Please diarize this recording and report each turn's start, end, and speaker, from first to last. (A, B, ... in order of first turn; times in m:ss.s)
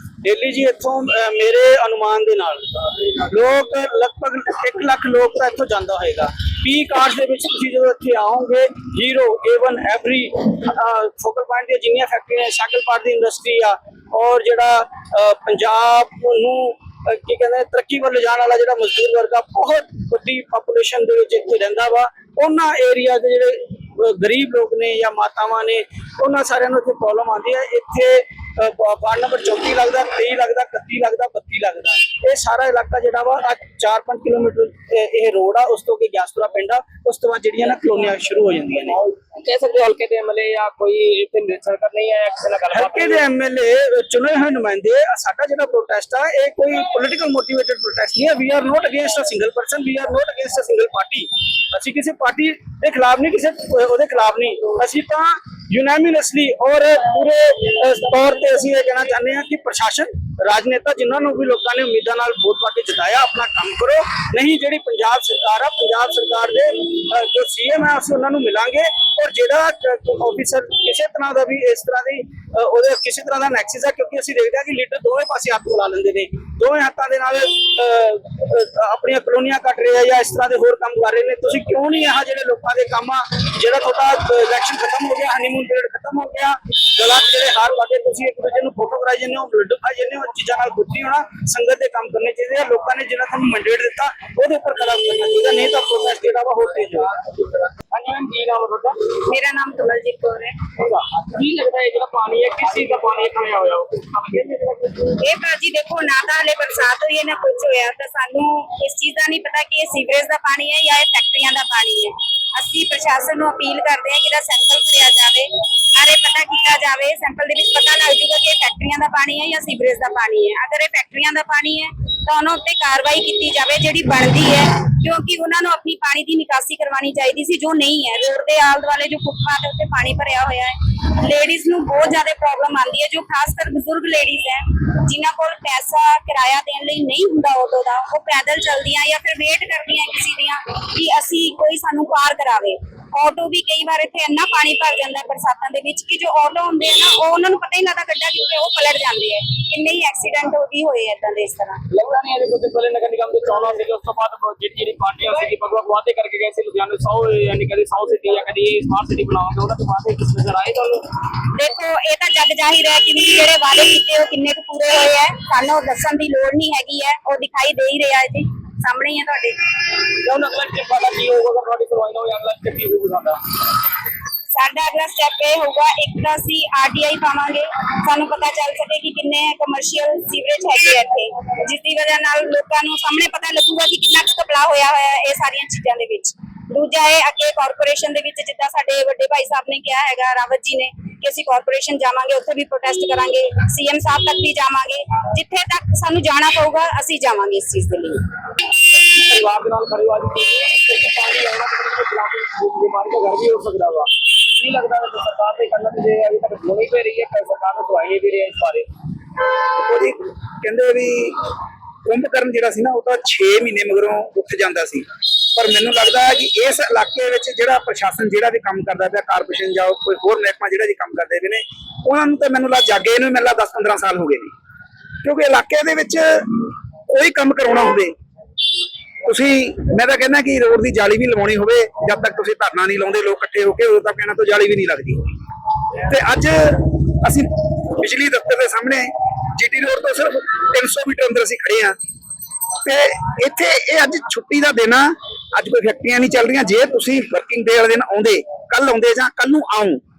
0:00.2-0:39.0 A
0:39.1-0:43.2 B
0:42.7-1:37.2 A
1:37.9-1:39.1 B
1:39.2-1:40.6 C
1:40.8-1:45.1 B
1:45.2-2:31.8 C
2:31.9-2:41.1 B
2:41.5-2:49.6 C
2:50.2-2:53.4 B
2:54.5-3:18.2 C
3:18.9-3:28.9 B
3:29.7-3:31.5 D
3:32.0-3:44.5 D
3:45.2-3:48.1 D
3:49.2-3:55.2 D
3:56.1-4:02.0 D
4:02.8-4:10.0 D